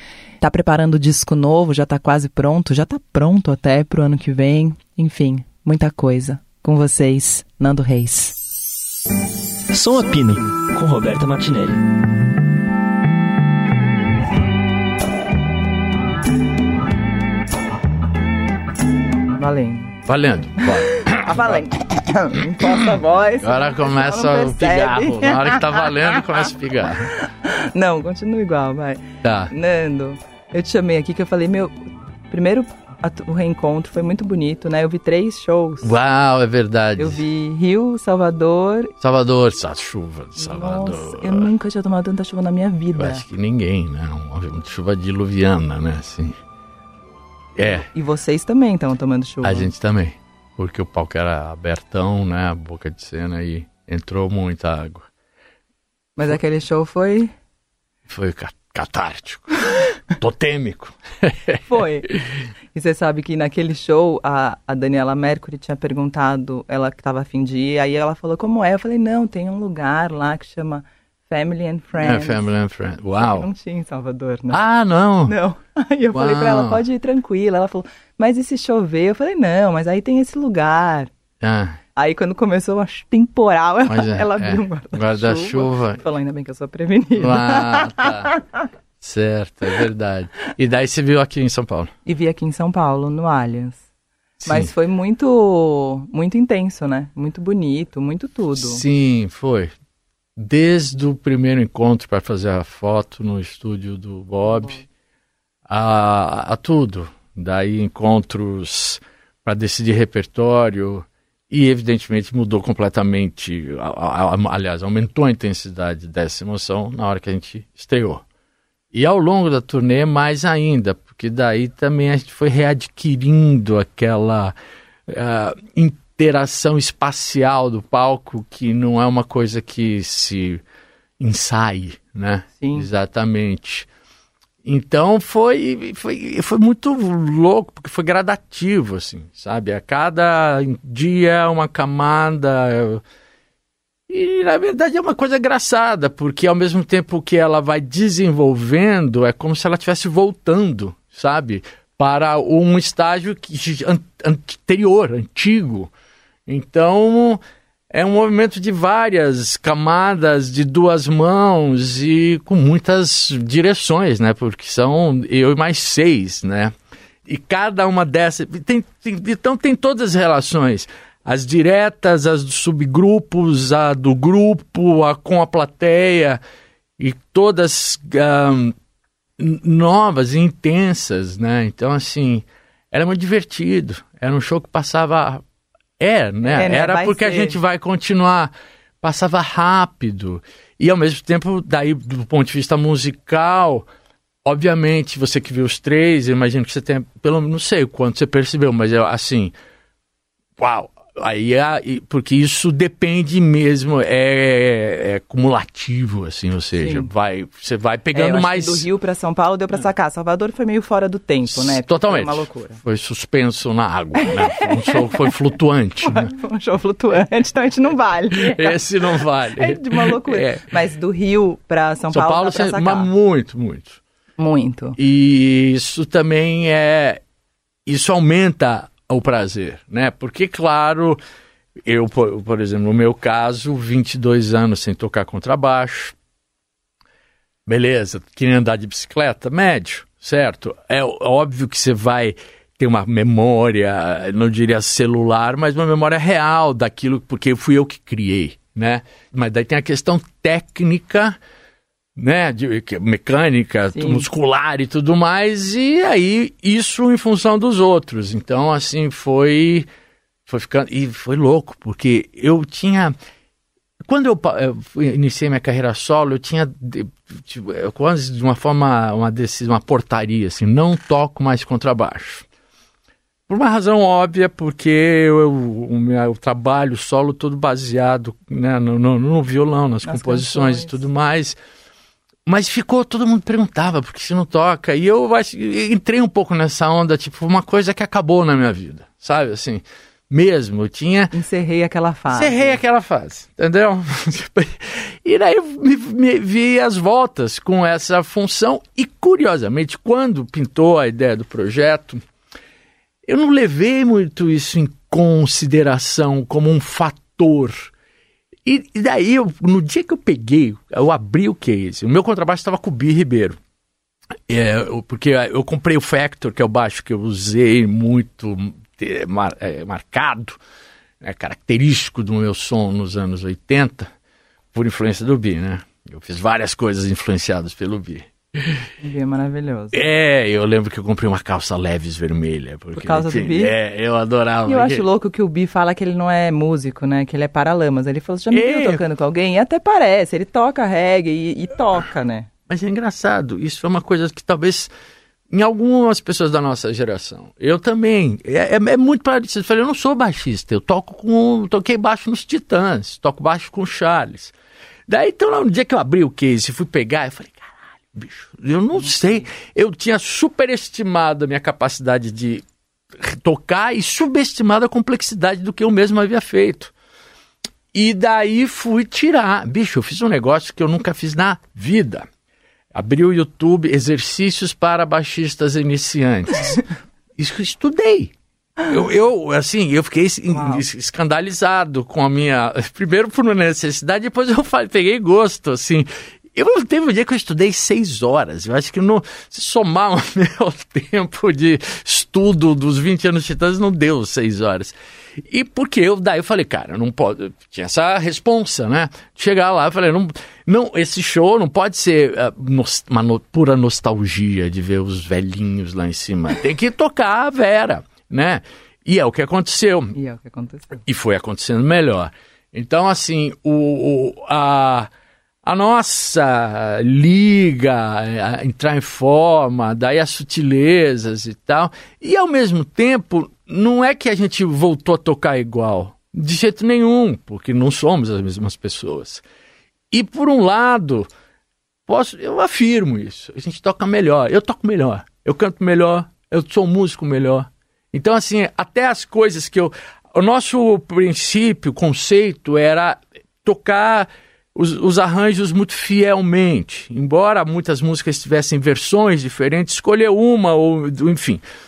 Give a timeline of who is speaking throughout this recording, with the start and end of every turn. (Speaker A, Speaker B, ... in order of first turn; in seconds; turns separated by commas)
Speaker A: 0.4-8.4, Speaker B: 9.7-11.8, Speaker A: 19.3-20.0, Speaker C: 20.1-21.6, Speaker A: 20.6-26.2, Speaker C: 23.4-27.1, Speaker A: 27.1-31.7, Speaker C: 29.2-29.5, Speaker A: 32.3-35.9, Speaker C: 35.8-37.2, Speaker A: 37.0-38.9, Speaker C: 39.0-41.5, Speaker A: 40.4-43.2, Speaker C: 42.9-46.4, Speaker C: 47.5-47.9, Speaker A: 47.9-49.7, Speaker C: 49.4-55.1, Speaker A: 56.2-57.3, Speaker C: 58.1-62.2, Speaker A: 61.7-62.1, Speaker A: 62.7-72.5, Speaker C: 72.0-73.5, Speaker A: 73.2-74.6, Speaker C: 74.5-75.3, Speaker A: 75.2-81.1, Speaker C: 76.1-76.8, Speaker C: 81.4-81.8, Speaker A: 82.0-88.4, Speaker C: 83.9-86.0, Speaker C: 87.2-88.3, Speaker C: 89.0-91.9, Speaker A: 92.0-93.8, Speaker A: 94.4-98.8, Speaker C: 98.5-99.7, Speaker C: 100.3-104.8, Speaker A: 104.5-104.8, Speaker C: 105.7-118.2, Speaker C: 118.9-124.5, Speaker C: 125.1-130.6, Speaker C: 131.2-133.9, Speaker A: 132.6-132.9, Speaker C: 134.6-143.0, Speaker C: 144.1-155.9, Speaker C: 156.4-166.7, Speaker C: 167.2-176.4, Speaker C: 177.0-178.8, Speaker C: 179.4-185.4, Speaker C: 186.0-193.9, Speaker A: 186.4-187.6, Speaker C: 194.4-199.5, Speaker C: 200.6-208.9, Speaker A: 206.8-207.1, Speaker A: 208.1-212.8, Speaker C: 211.5-216.3, Speaker A: 214.2-215.3, Speaker A: 216.0-223.1, Speaker C: 218.3-220.7, Speaker C: 222.1-224.0, Speaker A: 224.4-225.0, Speaker C: 225.0-227.2, Speaker C: 227.8-231.2, Speaker C: 231.8-236.1, Speaker C: 237.7-251.4, Speaker C: 252.2-259.9, Speaker A: 253.9-254.2, Speaker C: 260.4-263.1, Speaker C: 264.0-272.4, Speaker C: 273.5-281.6, Speaker A: 280.0-281.0, Speaker C: 282.4-291.3, Speaker A: 291.3-292.8, Speaker C: 292.3-302.2, Speaker C: 303.2-307.9, Speaker C: 308.6-313.6, Speaker C: 314.5-320.6, Speaker C: 321.2-324.1, Speaker C: 324.7-328.8, Speaker A: 329.0-330.1, Speaker C: 329.9-335.0, Speaker A: 332.9-333.7, Speaker A: 334.6-342.5, Speaker C: 338.5-339.0, Speaker C: 342.7-344.9, Speaker C: 345.5-354.5, Speaker C: 355.1-362.6, Speaker A: 359.0-359.4, Speaker C: 363.2-366.9, Speaker C: 367.9-372.2, Speaker C: 372.9-410.1, Speaker A: 380.5-380.8, Speaker A: 410.1-411.0, Speaker C: 411.0-415.1, Speaker C: 415.6-429.4, Speaker C: 430.1-431.3, Speaker C: 432.1-451.6